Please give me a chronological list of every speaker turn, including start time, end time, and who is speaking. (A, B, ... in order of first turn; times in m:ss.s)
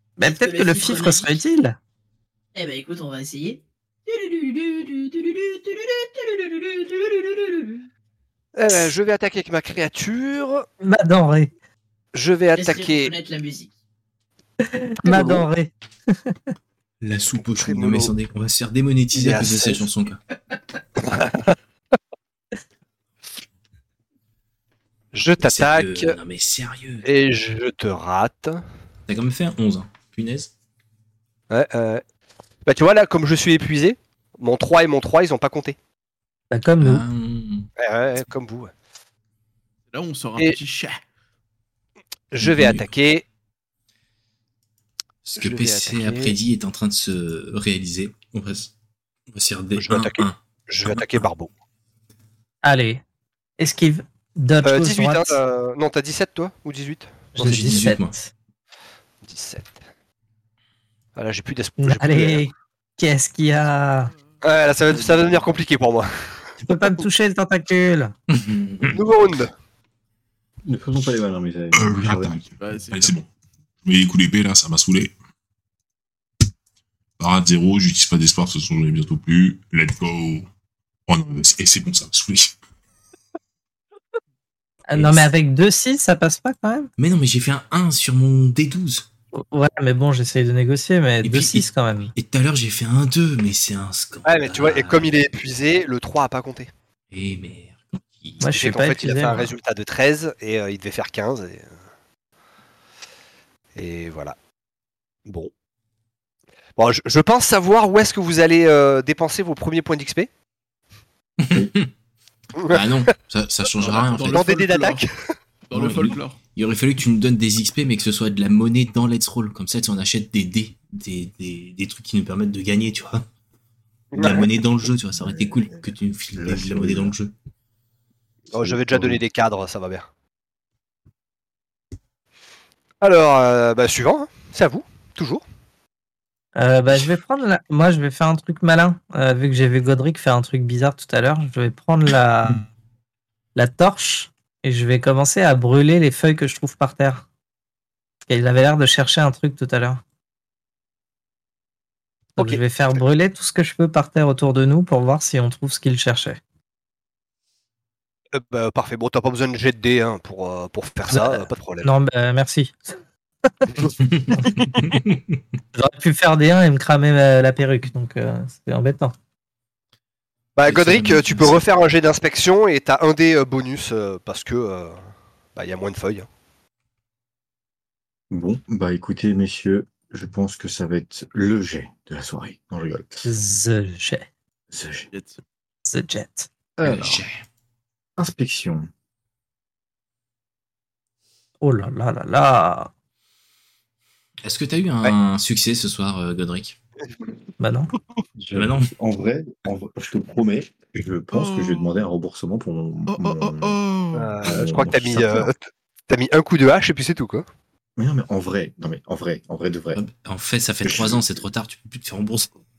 0:00.2-0:01.3 A
0:00.2-0:01.8 B
0:02.5-0:07.8 A
0:08.5-0:10.6 C
0:10.8-0:11.5 B
0:12.1-0:13.1 C
0:12.5-0:13.7 A
0:14.6-0:16.4 B
0:17.0-0:20.2 D
0:17.5-0:18.1 C
0:19.1-0:19.8 C
0:21.0-0:21.5 C
0:25.1-0:26.2 C
0:25.4-0:27.0 D
0:27.0-0:28.6 C
0:29.1-0:30.5 D
0:31.5-0:32.0 C
0:32.6-0:35.8 C
0:36.5-0:37.0 B
0:36.8-0:37.7 D
0:37.8-0:38.7 C
0:39.9-0:41.0 E
0:42.3-0:43.2 C
0:42.4-0:42.9 D
0:45.2-0:48.7 D
0:45.4-0:46.4 C
0:49.3-0:51.3 D
0:49.8-0:51.5 C
0:52.6-0:53.0 B
0:53.6-0:55.4 B
0:54.6-0:57.3 C
0:57.3-0:58.3 B
0:57.4-0:58.2 D
0:59.2-0:59.7 C
1:01.2-1:02.5 C
1:01.8-1:04.1 B
1:04.4-1:06.1 C
1:04.9-1:05.5 E
1:06.6-1:08.1 B
1:08.3-1:09.0 D
1:08.9-1:09.5 C
1:10.6-1:12.4 F
1:11.7-1:13.3 G
1:12.6-1:13.2 E
1:13.8-1:15.1 G
1:17.2-1:20.5 G
1:21.1-1:22.5 G
1:24.9-1:26.9 B
1:24.9-1:25.3 D
1:27.0-1:29.1 D
1:29.3-1:32.1 B
1:31.2-1:35.1 D
1:34.2-1:36.7 C
1:37.1-1:39.4 D
1:38.4-1:39.5 B
1:38.6-1:41.7 C
1:43.8-1:44.4 C
1:46.8-1:50.3 C
1:51.4-1:51.9 D
1:52.6-1:53.0 C
1:52.7-1:54.5 D
1:53.8-1:55.0 E
1:54.3-1:55.1 C
1:55.7-1:56.4 E
1:55.7-2:03.3 D
2:04.1-2:04.5 C
2:04.1-2:07.3 D
2:05.2-2:05.8 F
2:06.4-2:07.1 F
2:08.5-2:10.1 C
2:08.5-2:09.2 F
2:13.0-2:15.4 C
2:16.6-2:22.7 B
2:23.5-2:27.2 B
2:28.3-2:30.0 B
2:32.4-2:36.4 B
2:38.3-2:41.9 C
2:41.1-2:43.0 B
2:44.0-2:45.4 D
2:45.7-2:49.1 B
2:50.6-2:55.0 C
2:50.6-2:51.7 D
2:55.6-2:56.3 C
2:58.3-3:03.3 F
3:03.2-3:04.3 B
3:04.7-3:05.1 F
3:05.1-3:05.4 E
3:05.8-3:06.5 B
3:06.8-3:07.2 F
3:06.8-3:07.4 D
3:08.2-3:08.9 F
3:11.6-3:12.9 B
3:14.4-3:16.8 D
3:17.6-3:17.9 B
3:18.4-3:23.8 F
3:18.5-3:18.9 D
3:21.3-3:22.0 E
3:23.1-3:24.4 E
3:24.1-3:27.4 C
3:24.4-3:25.5 F
3:28.0-3:30.0 F
3:29.9-3:32.6 D
3:30.8-3:31.4 F